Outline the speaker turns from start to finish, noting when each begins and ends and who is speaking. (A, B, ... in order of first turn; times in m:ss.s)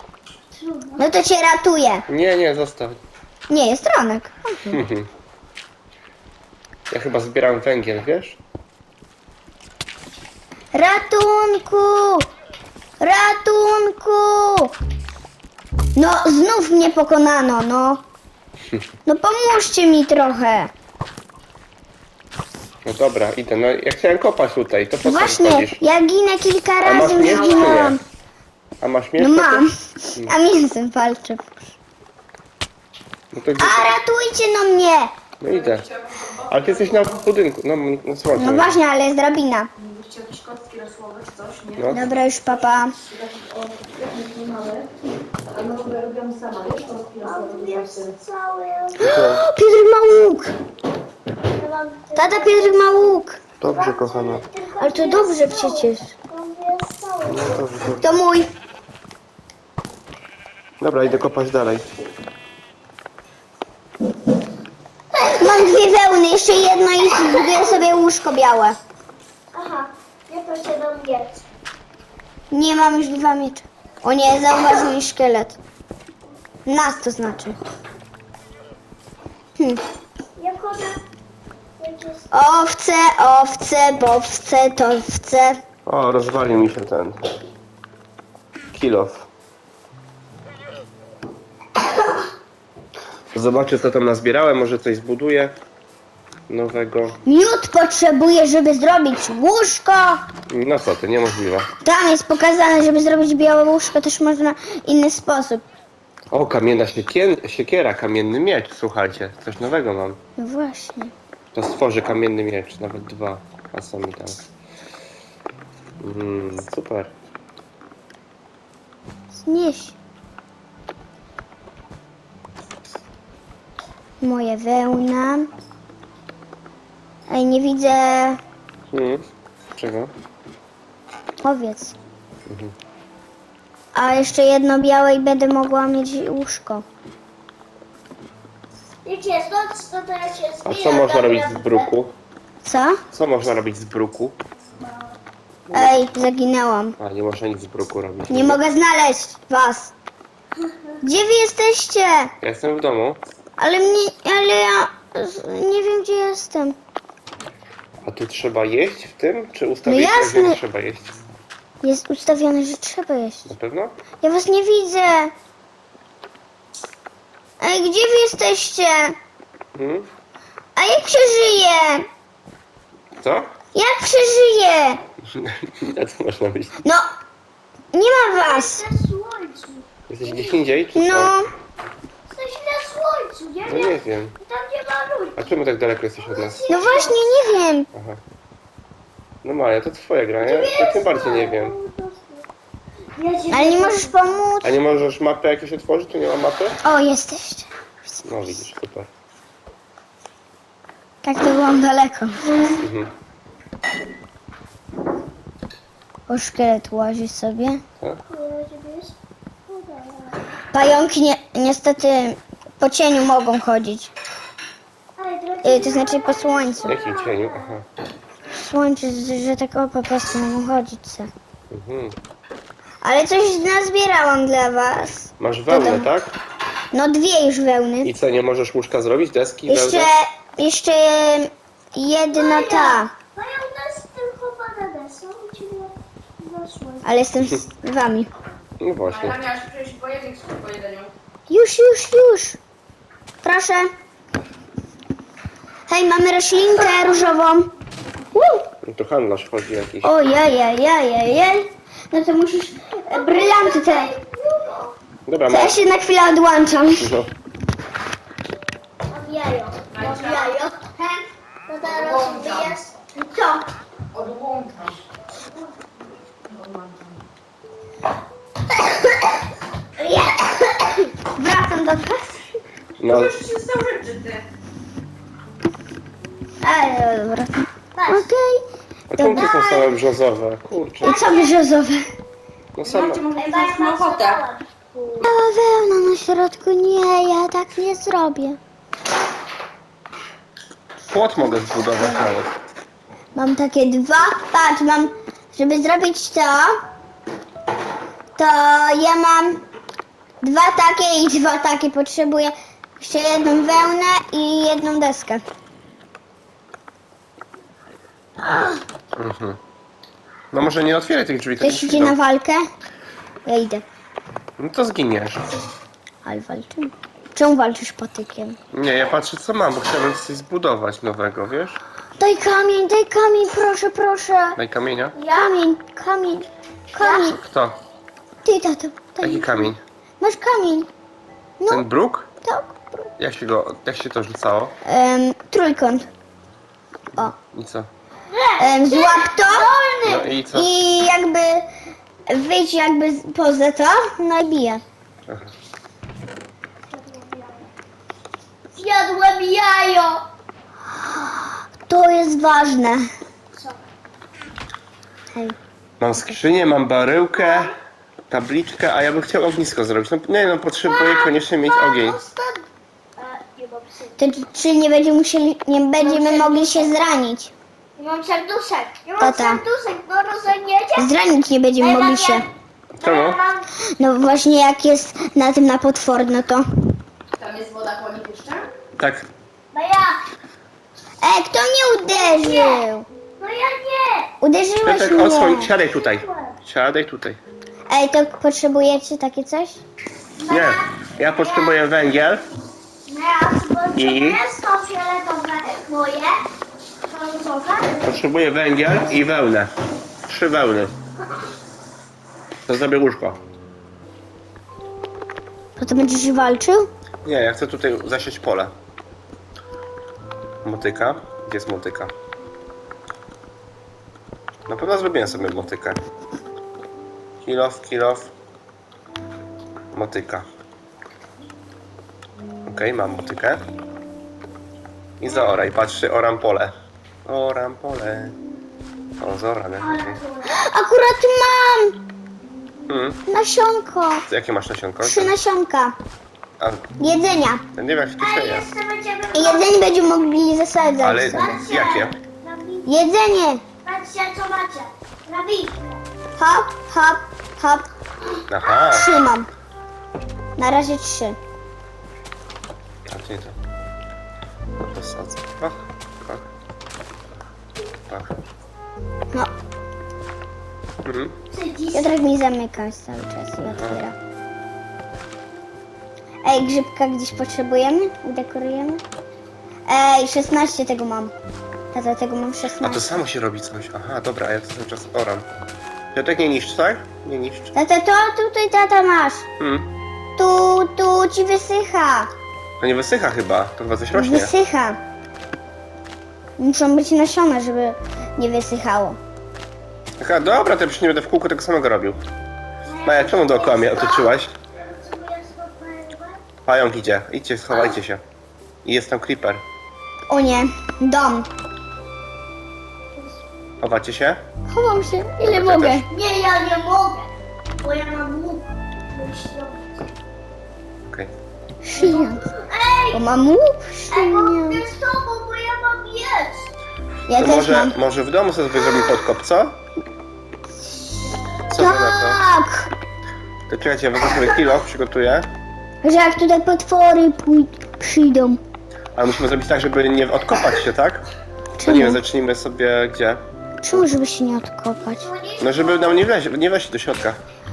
0:00.5-0:01.1 A
0:01.0-0:02.0 B
0:02.1-0:03.0 C
0:03.5-0:04.7 B
0:04.7-0:05.1 C
0:06.9-0:08.4 C
0:10.7-0:12.3 B
0:13.0-0:14.7 B
0:15.9-0:18.0 B
0:19.0-0:20.7 B
0:22.8-0:25.8 C
0:25.0-0:28.0 B
0:26.8-0:28.0 C
0:28.8-0:30.4 C
0:29.2-0:31.7 B
0:33.3-0:34.0 C
0:33.6-0:35.1 B
0:35.4-0:35.9 C
0:35.5-0:37.2 D
0:36.5-0:38.8 C
0:38.4-0:39.7 B
0:39.8-0:42.0 D
0:41.8-0:42.0 C
0:41.9-0:42.9 B
0:43.1-0:44.9 D
0:45.5-0:48.1 D
0:47.2-0:49.1 A
0:49.0-0:50.5 B
0:49.0-0:49.4 C
0:51.5-0:57.6 A
0:52.2-0:53.4 B
0:53.6-0:54.4 C
0:54.8-0:56.1 B
0:57.2-0:58.1 C
0:58.0-0:58.5 B
1:00.8-1:01.9 C
1:05.3-1:08.8 B
1:09.5-1:11.4 A
1:12.5-1:15.6 B
1:16.6-1:17.6 B
1:20.4-1:21.0 A
1:21.8-1:22.3 A
1:22.3-1:25.6 B
1:25.8-1:27.3 C
1:28.7-1:29.3 C
1:33.3-1:35.6 C
1:36.5-1:37.2 C
1:37.2-1:40.2 B
1:40.5-1:41.7 C
1:41.8-1:45.6 B
1:46.3-1:50.2 C
1:50.4-1:51.1 B
1:51.5-1:54.4 C
1:56.0-1:57.1 C
1:59.3-2:00.0 B
2:04.2-2:05.5 B
2:07.3-2:08.4 B
2:08.9-2:09.2 C
2:09.8-2:10.1 C
2:11.4-2:11.9 B
2:12.4-2:12.7 C
2:13.9-2:16.8 B
2:19.0-2:21.9 A
2:20.6-2:22.2 C
2:22.6-2:23.0 B
2:23.1-2:24.4 C
2:24.8-2:25.2 A
2:25.7-2:26.0 C
2:25.7-2:27.0 B
2:27.0-2:28.6 C
2:28.3-2:29.9 B
2:30.6-2:31.0 A
2:31.0-2:32.3 B
2:32.4-2:33.2 C
2:33.6-2:36.8 B
2:38.0-2:41.2 C
2:39.8-2:40.6 B
2:41.8-2:43.5 B
2:43.4-2:44.0 C
2:44.2-2:45.3 B
2:47.6-2:49.2 B
2:49.7-2:50.1 C
2:50.8-2:52.1 B
2:53.2-2:53.5 C
2:53.7-2:55.0 B
2:55.3-2:56.8 C
2:57.9-2:58.8 B
2:58.4-3:00.6 A
3:00.1-3:01.4 C
3:00.9-3:01.5 B
3:02.3-3:05.5 A
3:03.7-3:04.4 C
3:05.4-3:06.7 C
3:06.2-3:07.2 A
3:06.7-3:07.9 B
3:07.9-3:08.2 C
3:09.4-3:11.7 C
3:10.4-3:12.4 A
3:13.2-3:14.3 A
3:13.5-3:14.7 B
3:14.6-3:16.8 C
3:16.8-3:18.2 B
3:18.2-3:19.1 C
3:21.2-3:22.6 B
3:22.8-3:23.1 C
3:26.3-3:27.8 B
3:28.3-3:30.4 A
3:30.7-3:34.1 B
3:35.2-3:37.8 A
3:35.6-3:37.0 B
3:36.8-3:37.9 C
3:38.5-3:41.3 B
3:41.7-3:42.2 C
3:43.0-3:46.1 B
3:45.4-3:46.3 C
3:46.9-3:48.1 B
3:48.0-3:50.1 C
3:49.7-3:53.1 B
3:52.3-3:57.2 A
3:57.0-3:58.3 B
3:58.8-3:59.4 C
3:59.1-4:01.1 D
4:01.5-4:02.6 B
4:03.4-4:03.9 B
4:05.9-4:07.7 B
4:08.3-4:08.7 B
4:08.8-4:10.2 C
4:10.0-4:14.1 B
4:13.1-4:15.0 A
4:15.2-4:15.8 C
4:15.5-4:17.1 B
4:17.0-4:17.3 C
4:19.1-4:22.9 A
4:19.9-4:20.6 D
4:21.8-4:22.8 D
4:23.1-4:23.6 B
4:24.1-4:25.0 D
4:26.5-4:27.1 D
4:30.0-4:31.0 A
4:31.3-4:32.6 B
4:33.0-4:33.4 C
4:33.0-4:34.4 D
4:36.6-4:39.9 B
4:37.9-4:38.3 A
4:39.1-4:41.2 C
4:41.0-4:41.5 A
4:41.0-4:42.1 B
4:42.8-4:43.2 C
4:42.8-4:44.4 D
4:43.3-4:45.2 A
4:45.2-4:48.6 B
4:51.1-4:52.5 C
4:53.3-4:56.8 B
4:58.4-4:59.6 B
5:00.4-5:05.4 B
5:09.1-5:09.6 C
5:10.5-5:12.2 C
5:11.6-5:12.7 B
5:13.4-5:13.8 B
5:14.6-5:15.6 C
5:16.2-5:18.6 B
5:18.7-5:21.8 C
5:22.2-5:24.6 B
5:24.6-5:25.2 C
5:25.1-5:25.6 A
5:25.3-5:27.4 B
5:27.0-5:27.4 A
5:27.3-5:27.8 C
5:28.4-5:30.9 B
5:29.2-5:29.8 C
5:31.6-5:31.8 B
5:31.7-5:32.3 C
5:32.4-5:33.1 B
5:33.2-5:34.8 C
5:34.8-5:36.1 B
5:37.2-5:37.9 C
5:38.3-5:40.3 A
5:38.6-5:39.8 B
5:40.0-5:40.7 C
5:40.4-5:41.7 B
5:42.3-5:44.8 B
5:45.3-5:45.5 C
5:46.8-5:47.7 A
5:48.7-5:50.2 A
5:51.3-5:53.0 B
5:53.5-5:53.8 A
5:56.0-5:57.7 C
5:57.4-5:57.7 A
5:58.3-6:02.2 C
6:00.8-6:02.6 A
6:03.2-6:04.2 A
6:04.2-6:07.5 B
6:06.0-6:06.9 A
6:08.0-6:11.1 A
6:09.2-6:09.6 B
6:11.0-6:12.4 B
6:11.8-6:13.7 A
6:13.0-6:13.4 C
6:14.0-6:16.7 B
6:17.4-6:18.7 D
6:19.0-6:19.3 C
6:19.7-6:20.2 A
6:21.2-6:23.0 B
6:22.1-6:22.8 A
6:23.4-6:24.3 A
6:24.4-6:25.7 B
6:24.8-6:27.4 C
6:25.9-6:26.6 A
6:27.9-6:29.8 B
6:30.4-6:31.8 A
6:30.5-6:32.4 C
6:33.0-6:36.4 A
6:33.9-6:34.4 C
6:37.1-6:38.0 A
6:38.0-6:39.7 C
6:40.3-6:40.9 C
6:42.7-6:43.4 C
6:45.8-6:46.9 B
6:47.2-6:48.7 C
6:50.6-6:52.1 C
6:54.7-6:56.0 C
6:57.4-6:58.3 C
6:59.9-7:00.5 C
7:02.6-7:03.6 C
7:05.2-7:08.4 C
7:09.2-7:10.2 C
7:09.8-7:10.6 A
7:10.5-7:12.0 B
7:12.9-7:13.2 C
7:13.3-7:14.2 B
7:14.3-7:15.3 C
7:15.0-7:16.0 B
7:16.6-7:16.9 C
7:17.0-7:17.6 B
7:17.7-7:18.6 C
7:18.2-7:19.7 A
7:19.3-7:21.5 B
7:21.0-7:22.1 C
7:21.3-7:23.0 A
7:22.8-7:23.6 B
7:23.8-7:26.0 A
7:26.4-7:27.9 B
7:28.5-7:29.1 C
7:28.7-7:29.5 B
7:30.6-7:31.4 B
7:33.0-7:33.6 C
7:34.8-7:36.5 C
7:38.1-7:38.4 C
7:41.0-7:41.4 C
7:41.5-7:42.2 A
7:41.9-7:44.2 B
7:43.6-7:44.0 C
7:46.4-7:49.0 B
7:49.9-7:51.3 B
7:51.9-7:53.1 B
7:52.8-7:55.5 C
7:56.1-7:57.7 C
7:57.7-7:59.5 B
7:59.6-7:59.9 C
8:00.4-8:02.3 B
8:02.8-8:04.5 C
8:04.1-8:05.0 B
8:06.6-8:09.2 B
8:10.2-8:12.2 C
8:12.8-8:16.4 A
8:13.0-8:14.5 C
8:16.6-8:18.2 C
8:18.8-8:19.6 C
8:20.3-8:21.5 B
8:23.1-8:23.4 A
8:23.8-8:24.4 C
8:24.7-8:26.1 B
8:25.4-8:26.0 C
8:26.1-8:30.1 A
8:31.8-8:32.4 B
8:31.9-8:33.2 A
8:33.1-8:34.8 B
8:34.1-8:36.7 A
8:37.3-8:37.9 B
8:37.3-8:39.8 C
8:41.7-8:42.4 C
8:41.7-8:42.9 B
8:43.7-8:45.5 C
8:46.0-8:48.6 B
8:49.1-8:51.3 C
8:51.8-8:52.2 B
8:51.8-8:54.1 C
8:53.8-8:55.2 B
8:55.1-8:56.3 A
8:55.6-8:57.4 C